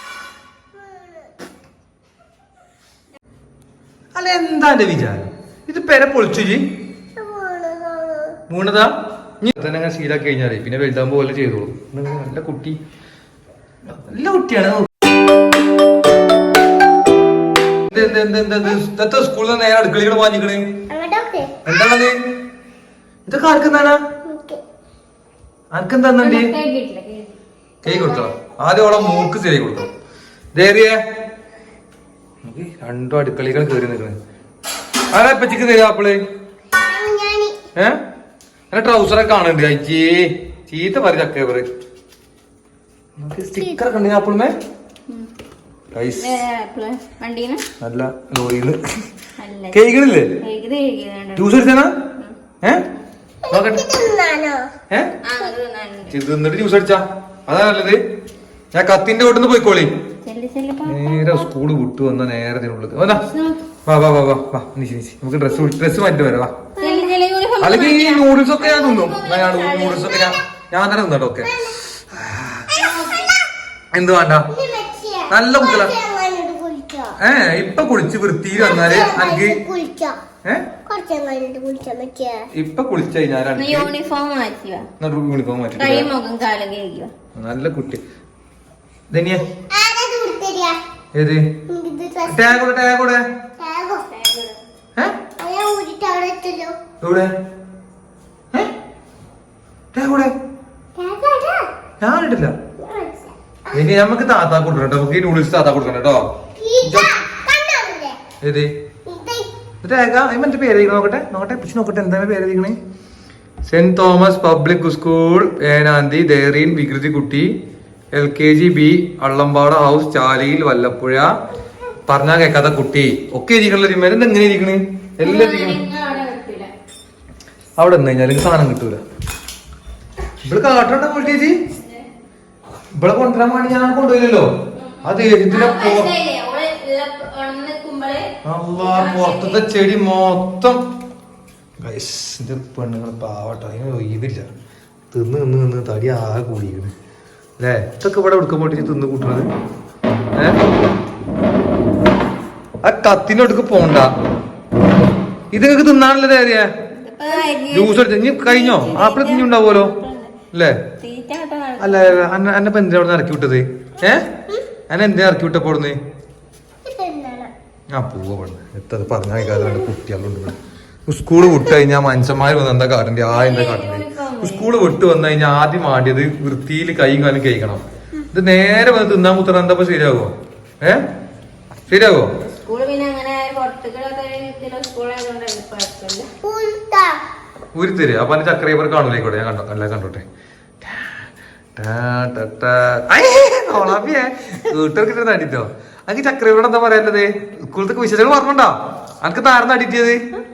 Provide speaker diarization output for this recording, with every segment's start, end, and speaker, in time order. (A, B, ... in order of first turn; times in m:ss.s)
0:04.1-0:06.7 A
0:07.2-0:08.4 B
0:08.5-0:12.8 A
0:13.9-0:14.9 A
0:17.9-0:20.8 A
0:20.9-0:21.6 B
0:21.6-0:22.2 A
0:23.2-0:24.0 A
0:24.2-0:24.6 B
0:25.7-0:26.5 A
0:26.2-0:27.3 C
0:27.8-0:29.9 A
0:27.8-0:28.3 B
0:30.5-0:31.0 A
0:32.4-0:34.2 A
0:35.1-0:36.2 A
0:36.7-0:37.6 B
0:38.7-0:41.7 A
0:43.2-0:44.6 A
0:45.9-0:46.4 A
0:46.2-0:47.6 C
0:47.8-0:49.0 A
0:49.4-0:49.8 C
0:49.7-0:50.4 A
0:50.4-0:51.6 C
0:51.4-0:52.0 A
0:53.5-0:53.9 A
0:53.5-0:54.7 B
0:55.2-0:56.1 C
0:56.1-0:58.0 A
0:58.7-0:59.9 A
1:00.2-1:01.4 C
1:00.8-1:03.2 A
1:03.3-1:03.6 C
1:03.8-1:06.5 A
1:06.8-1:07.1 B
1:06.8-1:10.3 C
1:07.6-1:12.7 A
1:11.4-1:11.8 B
1:12.7-1:13.3 C
1:13.0-1:13.4 B
1:13.9-1:14.5 A
1:14.5-1:17.2 B
1:15.3-1:15.9 A
1:17.2-1:19.6 A
1:18.5-1:20.2 B
1:20.4-1:20.7 A
1:20.8-1:22.5 B
1:22.5-1:23.9 A
1:23.6-1:24.9 C
1:25.0-1:26.1 A
1:25.8-1:27.1 C
1:27.3-1:28.0 A
1:29.1-1:29.4 A
1:29.5-1:30.8 B
1:31.1-1:31.6 A
1:31.7-1:32.6 B
1:32.2-1:33.2 A
1:33.6-1:34.1 B
1:34.1-1:34.6 C
1:35.4-1:36.8 B
1:37.0-1:37.3 A
1:39.9-1:40.3 A
1:40.9-1:41.7 B
1:42.0-1:42.6 A
1:42.8-1:43.3 B
1:43.7-1:46.2 A
1:46.6-1:48.2 B
1:46.8-1:47.1 A
1:48.4-1:48.7 A
1:49.0-1:49.5 B
1:49.8-1:52.8 A
1:53.7-1:57.6 A
1:58.1-2:01.3 A
2:02.1-2:05.8 A
2:05.2-2:06.7 C
2:07.8-2:09.0 A
2:10.4-2:11.6 A
2:11.6-2:12.0 C
2:12.9-2:14.5 A
2:14.7-2:19.6 C
2:15.0-2:16.1 A
2:18.4-2:20.8 A
2:21.8-2:24.5 A
2:25.1-2:26.9 A
2:27.6-2:29.5 A
2:32.8-2:34.1 A
2:35.5-2:36.7 A
2:37.0-2:40.3 C
2:37.7-2:39.9 A
2:40.5-2:40.8 A
2:41.0-2:42.3 C
2:41.8-2:44.3 A
2:44.9-2:46.0 A
2:46.8-2:47.5 B
2:47.9-3:01.0 A
2:53.3-2:54.7 C
3:01.9-3:02.3 A
3:02.4-3:06.3 C
3:06.4-3:07.2 B
3:07.7-3:10.2 A
3:10.8-3:11.2 A
3:11.8-3:20.2 A